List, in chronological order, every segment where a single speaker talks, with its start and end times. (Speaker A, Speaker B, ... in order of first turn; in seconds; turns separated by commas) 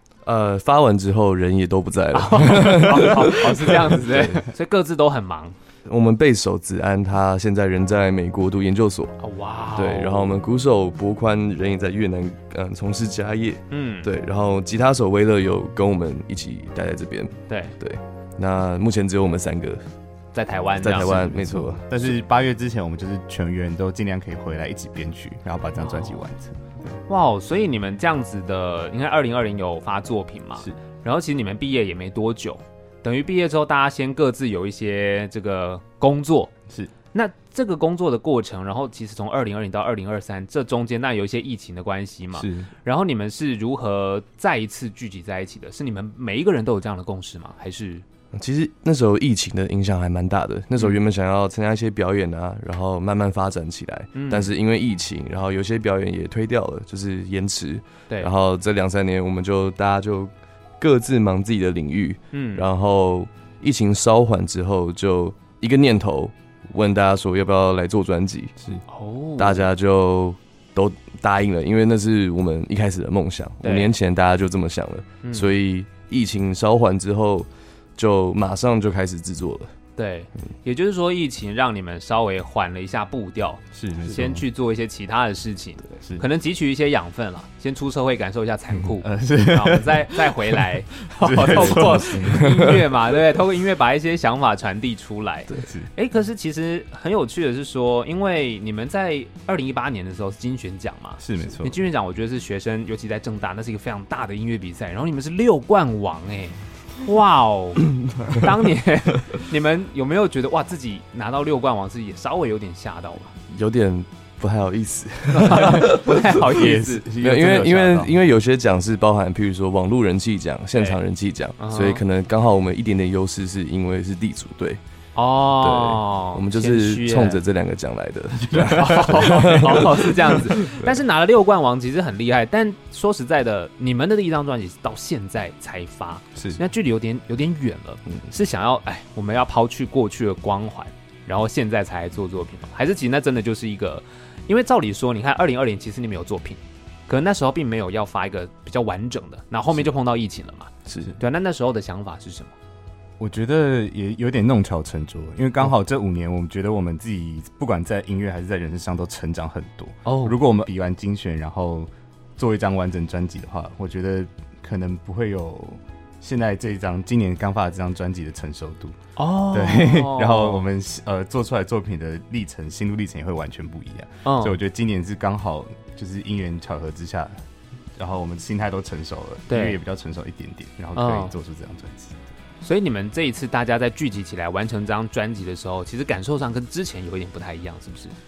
Speaker A: 0.2-3.9, Speaker B: 2.1-5.5, Speaker C: 3.2-4.5, Speaker A: 5.8-9.2, Speaker B: 9.2-10.2, Speaker A: 9.7-19.8, Speaker B: 13.7-14.1, Speaker B: 17.5-17.7, Speaker B: 20.3-21.3, Speaker A: 20.8-22.1, Speaker C: 20.8-27.0, Speaker B: 25.8-26.2, Speaker B: 27.1-36.5, Speaker B: 37.1-48.0, Speaker C: 42.4-42.7, Speaker A: 48.3-68.5, Speaker B: 54.1-54.5, Speaker B: 62.3-62.6, Speaker B: 68.9-69.7, Speaker A: 69.4-79.7, Speaker B: 73.6-73.9, Speaker B: 75.2-75.5, Speaker B: 80.0-113.3, Speaker C: 83.7-84.4, Speaker C: 88.8-90.6, Speaker C: 91.1-92.8, Speaker A: 91.6-92.7, Speaker C: 95.5-95.9, Speaker C: 101.2-101.8, Speaker A: 113.5-116.3, Speaker B: 115.3-117.0, Speaker C: 115.5-118.1, Speaker A: 117.2-124.8, Speaker B: 121.6-122.0, Speaker B: 125.1-127.4, Speaker A: 125.5-130.1, Speaker C: 128.5-130.3, Speaker B: 128.7-152.5, Speaker A: 150.9-151.1, Speaker C: 153.2-177.4, Speaker B: 160.1-160.4, Speaker B: 169.2-170.7, Speaker B: 174.2-174.6, Speaker C: 177.9-182.2, Speaker B: 179.5-179.8, Speaker B: 180.9-181.3, Speaker B: 182.6-188.2